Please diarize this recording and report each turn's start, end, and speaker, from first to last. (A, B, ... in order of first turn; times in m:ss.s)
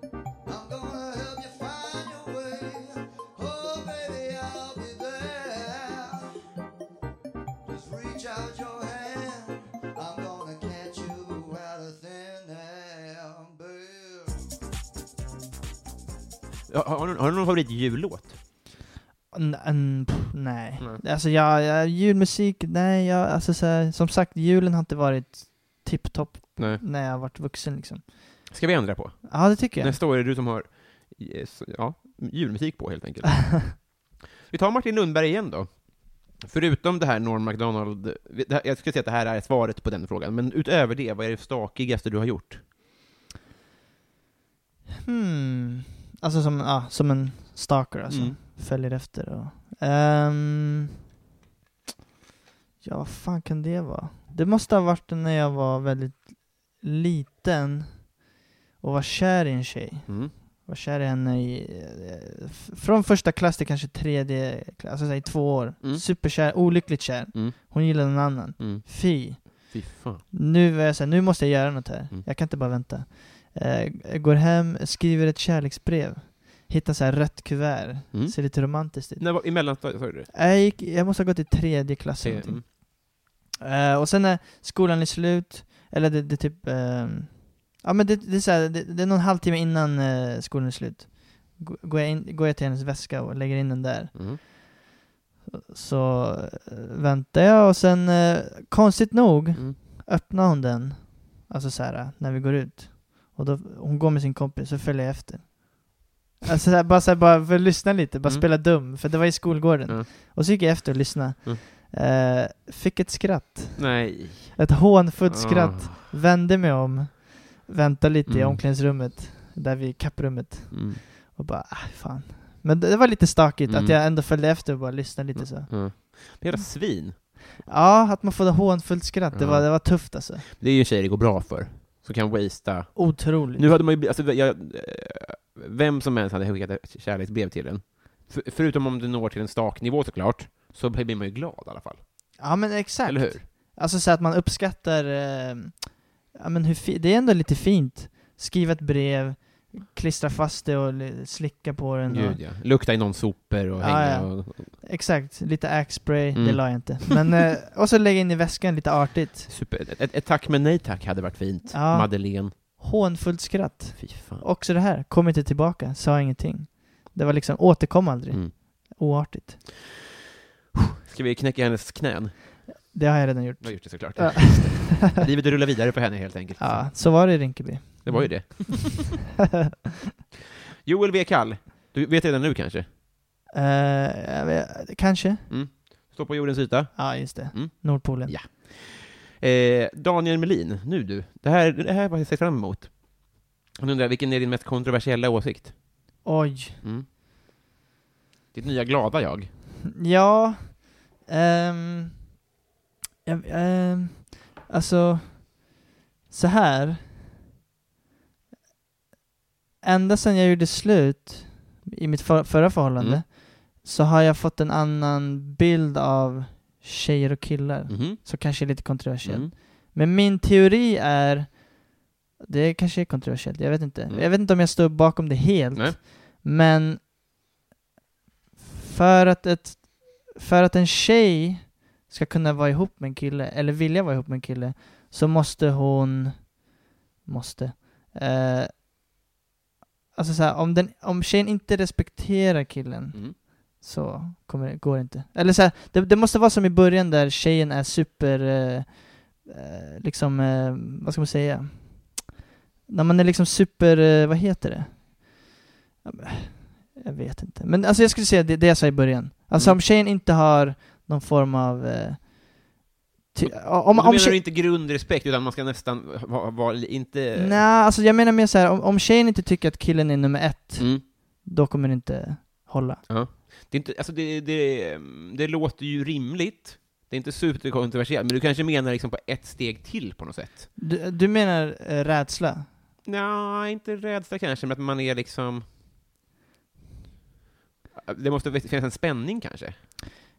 0:00.4-0:06.4 A
0:07.6-0:14.4 A
0:16.7-0:18.4 B
0:19.3-0:28.5 C
0:26.6-0:26.8 B
0:28.5-0:33.9 B
0:29.2-0:30.0 C
0:34.4-0:42.6 B
0:45.0-0:50.9 C
0:48.1-0:48.4 B
0:52.8-0:58.2 C
0:58.8-1:34.6 C
1:00.1-1:00.3 B
1:05.8-1:06.5 B
1:07.3-1:10.2 B
1:18.1-1:20.3 B
1:22.2-1:22.7 B
1:34.1-1:34.4 B
1:35.5-2:10.4 C
1:53.8-1:56.0 B
1:58.3-1:58.6 B
2:00.7-2:01.0 B
2:03.6-2:04.0 B
2:05.3-2:07.4 B
2:09.3-2:23.4 B
2:12.9-2:13.7 C
2:22.4-2:32.4 C
2:32.1-2:34.8 B
2:33.8-2:39.5 C
2:36.3-2:37.1 B
2:39.5-2:42.5 B
2:41.7-2:49.7 C
2:44.0-2:44.5 B
2:51.0-2:52.9 B
2:52.9-2:55.0 C
2:53.6-2:57.4 B
2:56.6-2:59.2 C
2:58.0-2:59.1 B
3:00.8-3:02.9 B
3:03.5-3:05.5 C
3:05.5-3:16.2 B
3:06.9-3:08.4 C
3:16.2-3:16.8 C
3:16.8-3:17.1 B
3:18.5-3:19.5 B
3:19.9-3:22.3 C
3:23.2-3:25.7 C
3:26.3-3:27.1 C
3:29.8-3:41.9 C
3:33.0-3:33.2 B
3:37.9-3:39.5 B
3:42.4-3:47.0 C
3:45.7-3:46.0 B
3:48.8-3:56.6 C
3:57.2-3:58.8 C
4:00.1-4:12.3 C
4:12.9-4:15.4 C
4:16.0-4:22.6 C
4:19.5-4:19.8 B
4:23.3-4:24.4 C
4:23.4-4:27.6 B
4:27.3-4:33.0 C
4:30.8-4:31.0 B
4:33.1-4:40.7 B
4:40.8-4:42.7 C
4:43.0-4:45.7 B
4:47.9-4:49.8 B